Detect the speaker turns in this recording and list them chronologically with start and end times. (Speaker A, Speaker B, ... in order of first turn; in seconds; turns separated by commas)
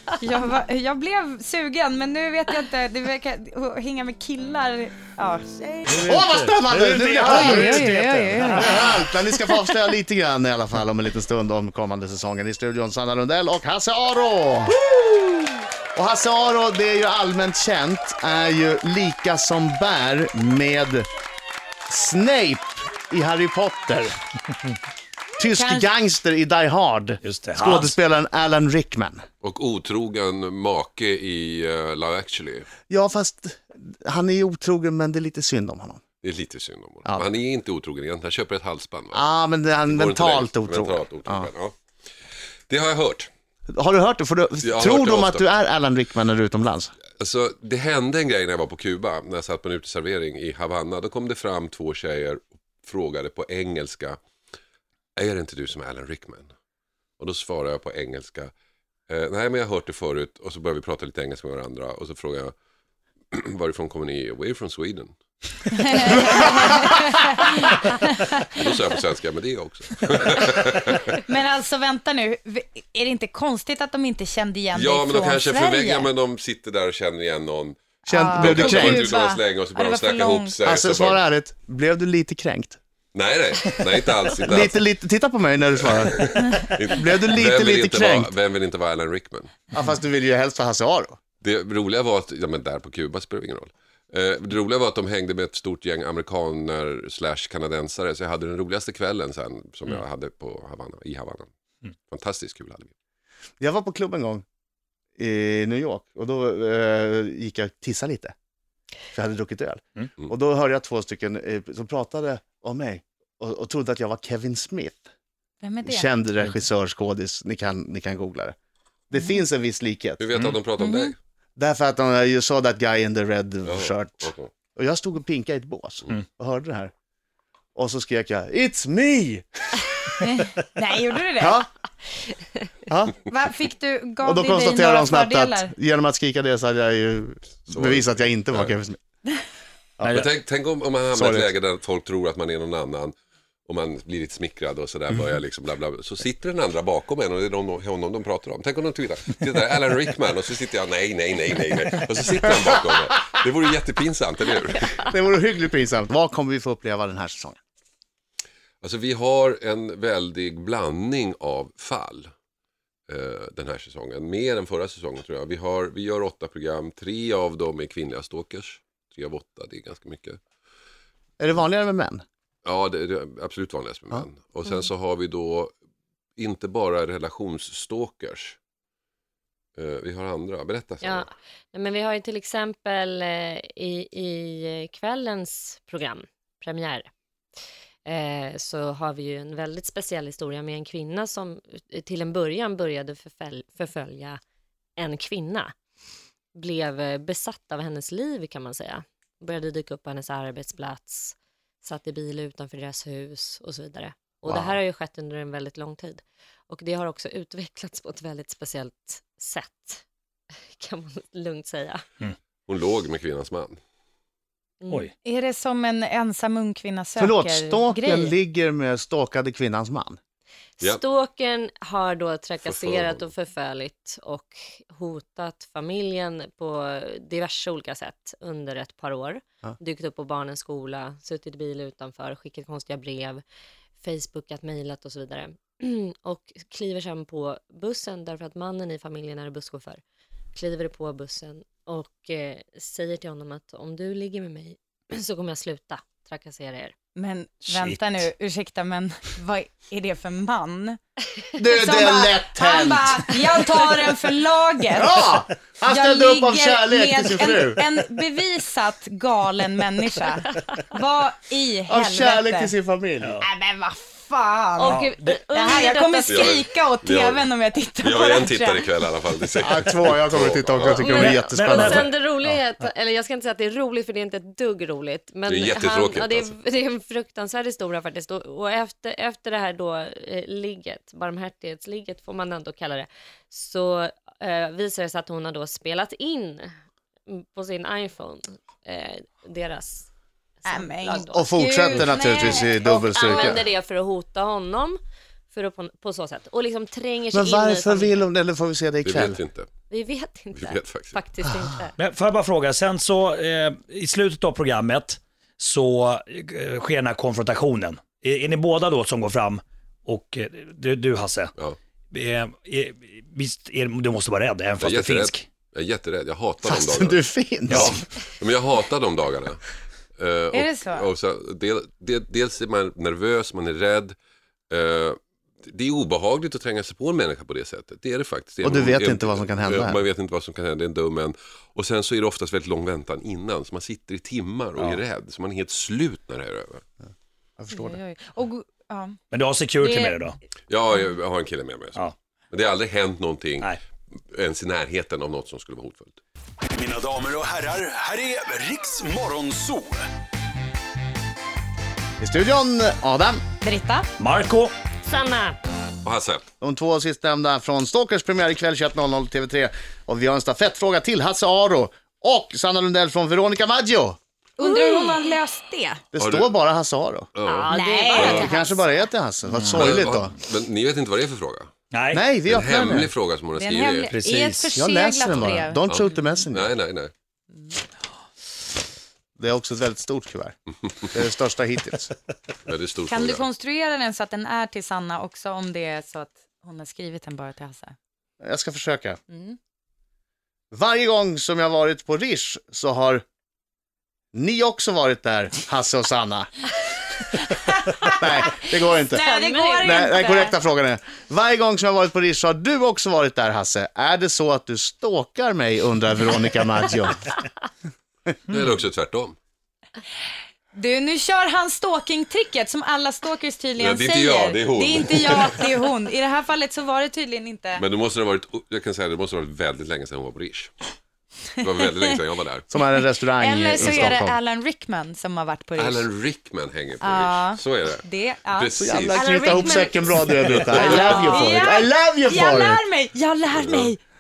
Speaker A: 0.2-6.0, Speaker B: 5.9-9.1, Speaker C: 6.0-7.8, Speaker A: 7.4-8.8, Speaker C: 8.5-14.8, Speaker C: 15.9-21.1, Speaker C: 21.9-24.1, Speaker C: 25.4-29.2, Speaker A: 25.6-25.9, Speaker B: 27.2-27.9, Speaker D: 29.4-32.7, Speaker C: 32.9-36.0, Speaker D: 36.2-39.3, Speaker C: 39.1-41.5, Speaker D: 39.9-41.8, Speaker D: 42.7-43.3, Speaker C: 43.7-46.9, Speaker D: 44.6-45.5, Speaker D: 47.2-54.2, Speaker D: 55.2-56.5, Speaker D: 57.2-58.5, Speaker D: 59.1-62.5, Speaker D: 63.3-65.2, Speaker A: 65.7-68.7, Speaker D: 68.5-71.0, Speaker A: 71.3-76.1, Speaker D: 74.7-77.8, Speaker A: 78.0-80.6, Speaker C: 78.1-79.1, Speaker D: 78.4-81.2, Speaker C: 80.7-82.8, Speaker D: 83.1-84.8, Speaker C: 84.4-88.3, Speaker D: 85.8-89.6, Speaker C: 89.7-91.2, Speaker D: 91.4-101.5, Speaker D: 102.1-102.9, Speaker C: 103.6-104.4, Speaker C: 105.2-108.3, Speaker C: 109.1-115.1, Speaker A: 115.6-116.2, Speaker C: 115.8-118.5, Speaker C: 119.1-120.2, Speaker D: 120.2-121.2, Speaker A: 120.8-121.1, Speaker C: 121.6-126.9, Speaker D: 123.7-124.5, Speaker C: 127.8-130.2, Speaker A: 130.2-131.6, Speaker C: 131.4-131.7, Speaker C: 132.9-133.2, Speaker A: 133.1-135.8, Speaker C: 134.2-139.0, Speaker D: 137.7-138.7, Speaker C: 140.0-140.3, Speaker D: 140.0-143.2, Speaker C: 141.1-141.5, Speaker D: 143.7-155.0, Speaker C: 155.0-157.6, Speaker D: 158.8-162.3, Speaker D: 163.1-170.4, Speaker C: 171.4-172.2, Speaker D: 172.7-175.7, Speaker D: 176.4-178.6, Speaker D: 179.8-181.3, Speaker E: 181.0-187.1, Speaker E: 188.1-194.4, Speaker E: 195.0-195.7, Speaker E: 196.6-210.0, Speaker D: 204.5-204.7, Speaker E: 210.8-212.0, Speaker D: 212.7-213.8, Speaker E: 214.8-215.1, Speaker A: 215.2-218.4, Speaker C: 217.2-220.2, Speaker E: 220.8-233.4, Speaker D: 222.6-223.3, Speaker E: 234.0-240.0, Speaker E: 240.5-246.9, Speaker A: 247.2-251.0, Speaker B: 247.7-248.0, Speaker C: 251.6-253.3, Speaker A: 251.8-255.3, Speaker C: 255.0-257.9, Speaker A: 255.8-262.7, Speaker C: 261.9-263.4, Speaker B: 263.2-263.5, Speaker A: 263.4-269.1, Speaker E: 264.8-266.6, Speaker B: 264.9-265.4, Speaker D: 266.3-267.5, Speaker D: 268.0-271.2, Speaker C: 269.6-272.6, Speaker E: 270.8-286.7, Speaker B: 271.1-272.1, Speaker D: 275.5-276.5, Speaker E: 287.3-290.1, Speaker E: 290.6-295.0, Speaker A: 290.7-293.6, Speaker C: 291.3-293.6, Speaker E: 295.5-298.3, Speaker C: 297.3-299.4, Speaker D: 299.0-299.7, Speaker E: 299.9-301.9, Speaker D: 300.5-301.2, Speaker B: 302.0-311.5, Speaker B: 312.1-315.5, Speaker D: 314.8-319.6, Speaker C: 316.6-318.0, Speaker B: 317.7-318.0, Speaker D: 320.2-324.2, Speaker A: 320.5-321.1, Speaker D: 324.7-336.8, Speaker C: 328.6-330.0, Speaker C: 337.6-338.0, Speaker A: 337.7-339.2, Speaker B: 339.3-340.4, Speaker E: 339.8-340.2, Speaker D: 340.7-343.8, Speaker D: 344.3-346.2, Speaker F: 346.8-350.1, Speaker C: 352.2-353.4, Speaker A: 353.6-354.1, Speaker B: 354.2-354.7, Speaker E: 355.0-355.6, Speaker D: 356.0-356.4, Speaker C: 356.6-364.2, Speaker A: 364.6-366.0, Speaker E: 364.6-365.1, Speaker C: 366.1-367.3, Speaker D: 366.2-366.5, Speaker D: 367.4-368.4, Speaker E: 367.4-368.6, Speaker A: 367.7-368.8, Speaker C: 368.3-370.3, Speaker B: 369.5-369.9, Speaker D: 369.7-371.7, Speaker B: 371.9-372.2, Speaker C: 372.1-373.1, Speaker D: 372.5-374.1, Speaker A: 373.6-376.2, Speaker B: 374.1-374.7, Speaker C: 374.7-376.7, Speaker D: 375.3-377.1, Speaker C: 379.4-380.6, Speaker C: 381.1-382.1, Speaker D: 382.7-383.5, Speaker A: 383.1-387.9, Speaker C: 388.4-389.2, Speaker A: 389.3-389.6, Speaker C: 390.7-393.2, Speaker C: 394.3-396.5, Speaker A: 397.4-400.6, Speaker C: 398.1-399.2, Speaker E: 399.1-400.2, Speaker C: 399.8-407.3, Speaker D: 408.5-409.4, Speaker A: 410.7-417.9, Speaker D: 413.8-415.6, Speaker D: 417.8-420.7, Speaker A: 421.6-422.2, Speaker D: 421.6-422.7, Speaker C: 422.7-424.4, Speaker A: 422.9-426.1, Speaker D: 425.8-429.2, Speaker A: 427.0-434.0, Speaker C: 428.8-432.8, Speaker E: 429.1-431.7, Speaker D: 430.8-431.3, Speaker D: 433.6-433.9